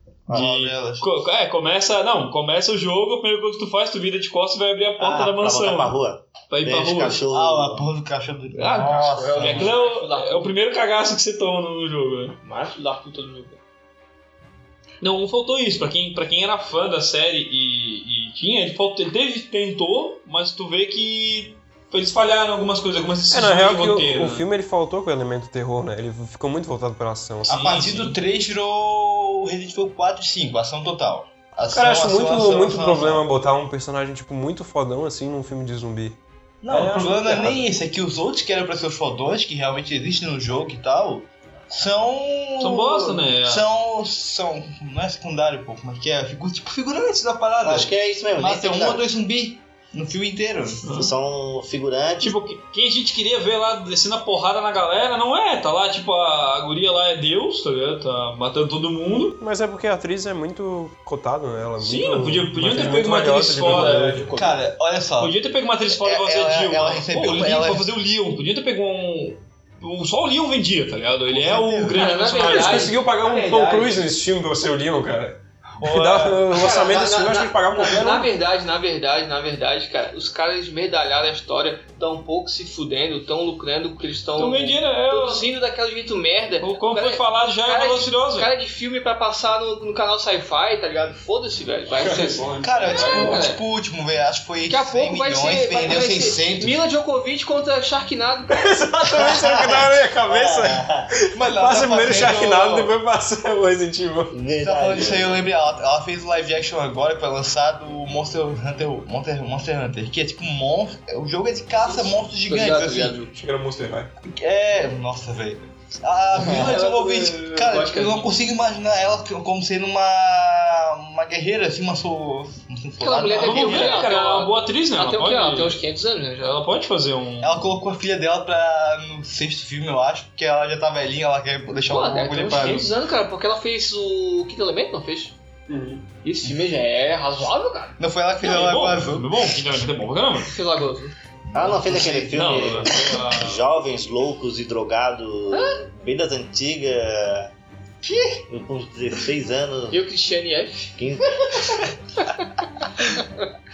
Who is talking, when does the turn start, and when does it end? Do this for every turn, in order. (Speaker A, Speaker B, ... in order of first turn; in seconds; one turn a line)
Speaker A: 0.3-6.0
Speaker B: 0.3-1.1
Speaker C: 5.0-7.9
Speaker A: 6.5-7.2
Speaker B: 7.3-9.7
Speaker A: 8.5-12.3
Speaker D: 9.0-10.5
Speaker D: 12.4-13.6
Speaker A: 15.0-24.4
Speaker E: 23.3-27.9
Speaker B: 27.5-33.2
Speaker A: 27.5-28.1
Speaker E: 31.7-36.2
Speaker B: 36.6-50.9
Speaker E: 36.7-37.6
Speaker A: 42.6-43.6
Speaker C: 47.6-49.0
Speaker A: 50.8-51.1
Speaker C: 50.9-52.4
Speaker A: 52.2-59.4
Speaker E: 59.4-64.3
Speaker A: 61.8-64.3
Speaker D: 63.7-64.4
Speaker B: 63.7-65.4
Speaker A: 65.2-73.0
Speaker B: 65.9-67.9
Speaker B: 71.3-72.1
Speaker D: 71.9-74.0
Speaker E: 72.4-78.3
Speaker A: 75.8-76.4
Speaker D: 76.5-93.6
Speaker A: 84.4-85.5
Speaker A: 86.6-88.5
Speaker E: 92.0-93.4
Speaker B: 92.6-96.8
Speaker D: 94.7-98.7
Speaker E: 98.5-104.4
Speaker C: 99.1-101.2
Speaker B: 101.3-102.9
Speaker C: 104.3-105.4
Speaker B: 104.5-113.2
Speaker D: 111.8-113.3
Speaker E: 113.3-114.1
Speaker B: 114.2-124.0
Speaker D: 116.3-118.3
Speaker D: 123.0-126.6
Speaker A: 123.3-125.8
Speaker A: 126.4-127.6
Speaker B: 127.4-132.9
Speaker D: 131.8-135.3
Speaker E: 135.7-136.0
Speaker D: 136.2-138.0
Speaker B: 138.0-139.3
Speaker A: 138.4-140.5
Speaker D: 140.4-141.1
Speaker C: 141.5-147.5
Speaker B: 141.6-142.8
Speaker A: 141.9-143.6
Speaker D: 145.5-145.8
Speaker C: 148.5-150.0
Speaker D: 149.9-150.9
Speaker C: 151.0-151.6
Speaker D: 151.5-152.4
Speaker D: 153.2-153.4